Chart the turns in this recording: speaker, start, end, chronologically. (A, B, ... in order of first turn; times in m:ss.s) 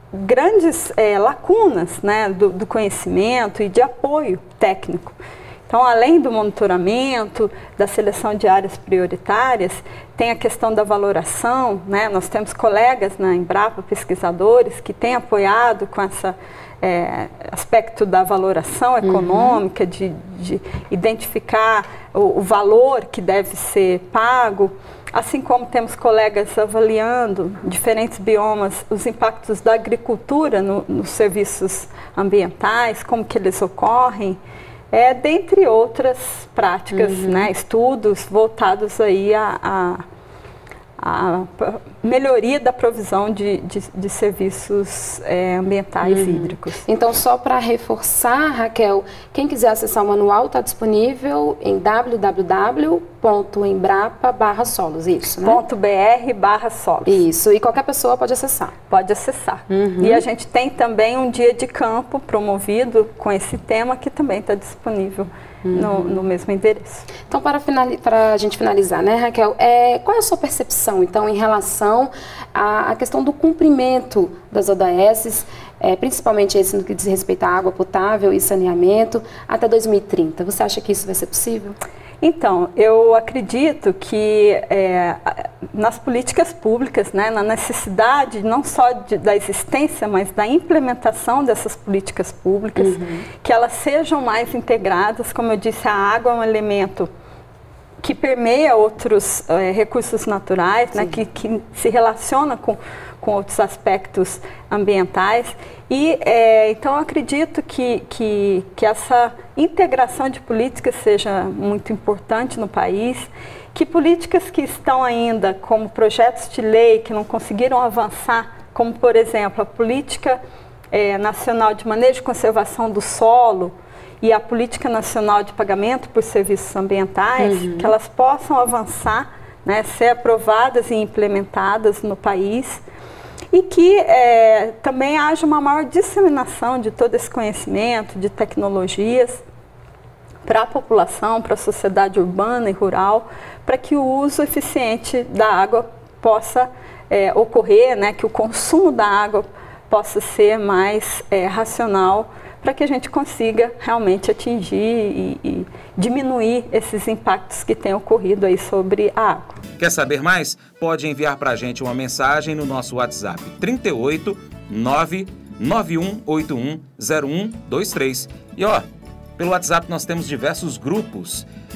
0:00.1-0:05.2 A
0:05.7-0:34.4 A
0:19.0-0:19.6 B
0:34.9-0:40.0 A
0:36.9-0:37.5 B
0:41.0-0:46.8 A
0:46.0-0:55.6 B
0:55.4-0:57.2 A
0:57.1-0:58.7 B
0:58.9-1:07.1 A
0:59.7-1:00.2 B
1:05.6-1:06.3 B
1:07.3-1:21.8 B
1:22.2-1:37.1 A
1:32.8-1:33.3 B
1:38.0-2:00.4 A
2:00.9-2:12.8 A
2:07.4-2:07.9 B
2:13.5-2:19.4 A
2:20.5-2:39.6 A
2:39.8-2:48.8 C
2:49.4-2:51.5 C